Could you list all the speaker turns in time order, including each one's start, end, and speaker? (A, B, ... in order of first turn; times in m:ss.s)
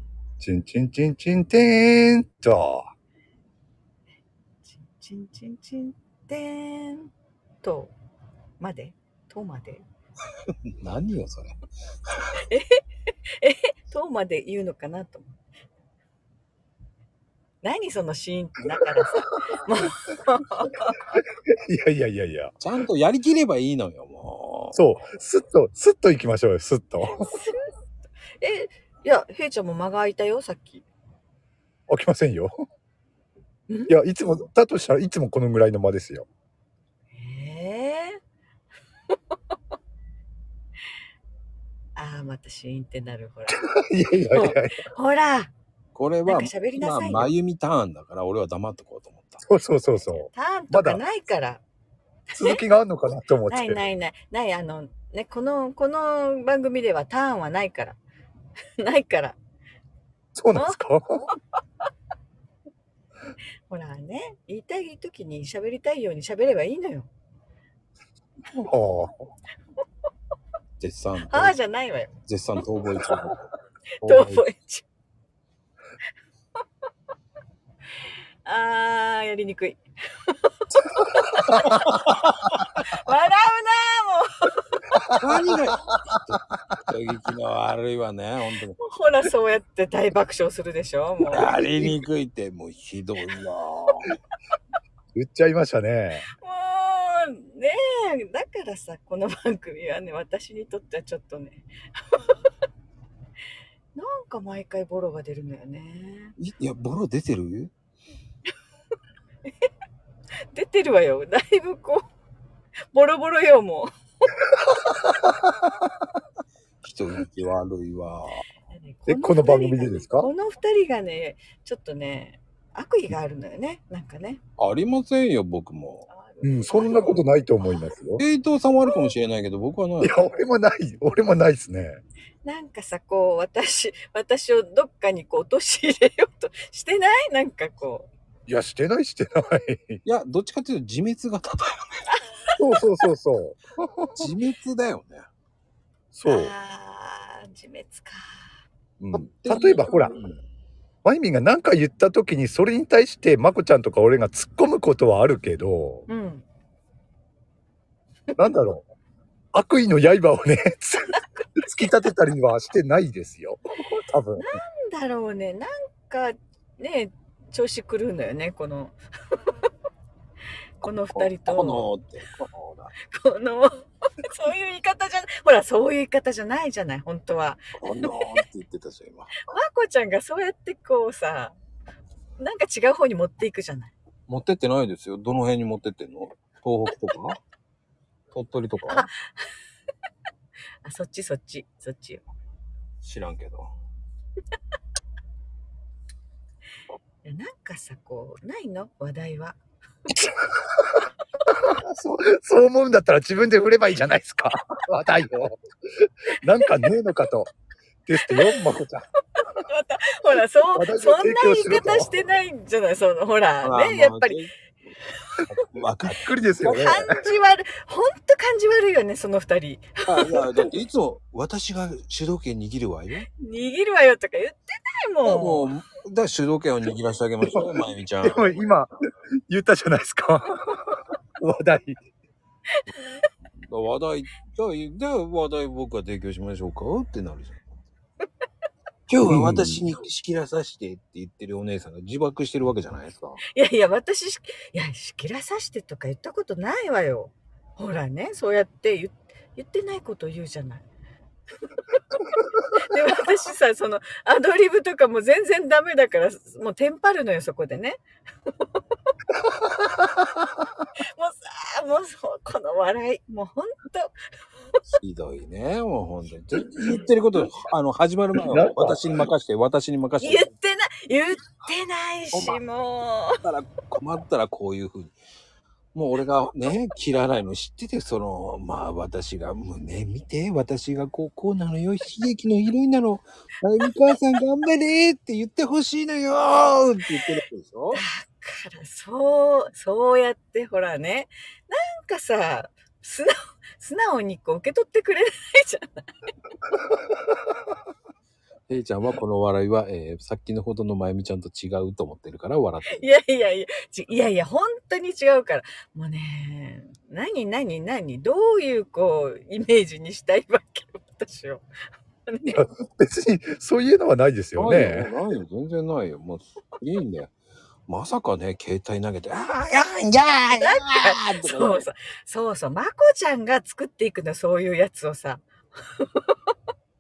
0:00.4-0:02.8 A
0:04.6-0:07.1 B
0:07.6-0:07.9 B
0:08.6-0:09.8 B
0:10.5-0:11.6 C
0:12.1-0:12.4 C
0:12.3-0:15.4 B
0:17.6-0:21.0 B
0:21.2-0:22.5 A
0:22.6-0:24.8 C
0:24.7-0:27.3 A
0:27.1-0:27.7 B
0:28.4-0:30.8 B
0:31.9-0:32.5 A
0:33.9-0:36.3 A
0:37.1-0:38.2 B
0:42.0-0:43.6 B
0:43.5-0:44.8 A
0:44.3-0:45.5 B
0:46.0-0:49.4 C
0:46.3-0:47.3 B
0:49.4-0:51.0 A
0:50.3-0:51.6 B
0:52.3-0:52.6 B
0:52.4-0:53.8 A
0:53.5-0:58.0 B
0:58.8-0:59.4 B
1:00.4-1:01.3 A
1:00.6-1:00.8 B
1:03.7-1:07.1 B
1:08.5-1:09.1 A
1:10.8-1:11.6 C
1:11.3-1:12.2 B
1:12.3-1:13.4 C
1:14.0-1:14.4 C
1:14.0-1:14.9 B
1:18.4-1:20.5 B
1:21.0-1:21.8 B
1:21.3-1:22.8 C
1:22.8-1:25.0 B
1:24.9-1:25.5 A
1:25.2-1:28.8 C
1:28.8-1:31.6 B
1:31.3-1:34.2 C
1:31.6-1:31.9 A
1:35.2-1:36.3 A
1:36.3-1:42.5 B
1:44.0-1:46.4 B
1:46.4-1:47.7 C
1:50.5-1:52.0 B
1:52.9-1:53.9 B
1:54.6-1:55.7 A
1:56.8-1:58.5 C
1:58.6-2:04.4 B
1:59.1-2:00.3 A
2:04.6-2:06.1 C
2:06.1-2:07.9 B
2:06.4-2:08.2 A
2:08.2-2:10.2 C
2:08.8-2:09.1 B
2:10.0-2:12.0 A
2:12.4-2:18.1 B
2:18.5-2:20.0 A
2:20.0-2:22.1 C
2:22.6-2:24.3 A
2:24.2-2:25.3 C
2:26.1-2:26.5 A
2:26.3-2:28.4 B
2:29.0-2:30.1 A
2:29.1-2:30.4 C
2:31.0-2:36.1 A
2:36.1-2:36.4 B
2:38.4-2:38.9 A
2:39.5-2:44.5 A
2:41.1-2:41.8 B
2:44.4-2:49.7 B
2:50.8-2:51.9 B
2:50.9-2:52.9 C
2:53.0-2:58.4 B
2:57.8-2:59.4 C
2:59.4-3:01.6 B
3:02.4-3:03.9 B
3:04.3-3:07.4 C
3:08.3-3:09.1 C
3:08.9-3:09.5 B
3:10.8-3:12.3 B
3:13.0-3:13.7 C
3:17.2-3:19.6 B
3:21.5-3:27.5 A
3:26.6-3:26.9 B
3:28.1-3:29.0 A
3:28.3-3:28.6 B
3:29.4-3:34.4 B
3:30.8-3:32.1 A
3:33.6-3:34.5 C
3:35.1-3:35.4 B
3:35.5-3:36.2 C
3:36.1-3:37.2 A
3:36.6-3:40.5 B
3:40.1-3:43.3 C
3:43.4-3:45.7 B
3:45.2-3:48.6 C
3:47.4-3:47.7 A
3:48.2-3:48.9 A
3:49.5-3:52.0 A
3:52.8-3:53.3 B
3:53.6-3:57.7 C
3:59.1-4:03.4 C
3:59.2-3:59.8 A
4:03.5-4:10.8 B
4:11.9-4:18.8 B
4:19.4-4:20.5 A
4:21.0-4:24.2 B
4:25.0-4:30.5 C
4:28.4-4:29.2 A
4:30.2-4:33.4 B
4:32.3-4:32.6 C
4:33.4-4:35.2 C
4:35.9-4:48.0 C
4:47.9-4:56.1 B
4:58.7-5:03.1 C
5:02.9-5:11.7 B
5:12.3-5:12.6 B
5:12.4-5:15.1 A
5:14.6-5:17.3 C
5:17.9-5:21.9 C
5:20.6-5:26.5 B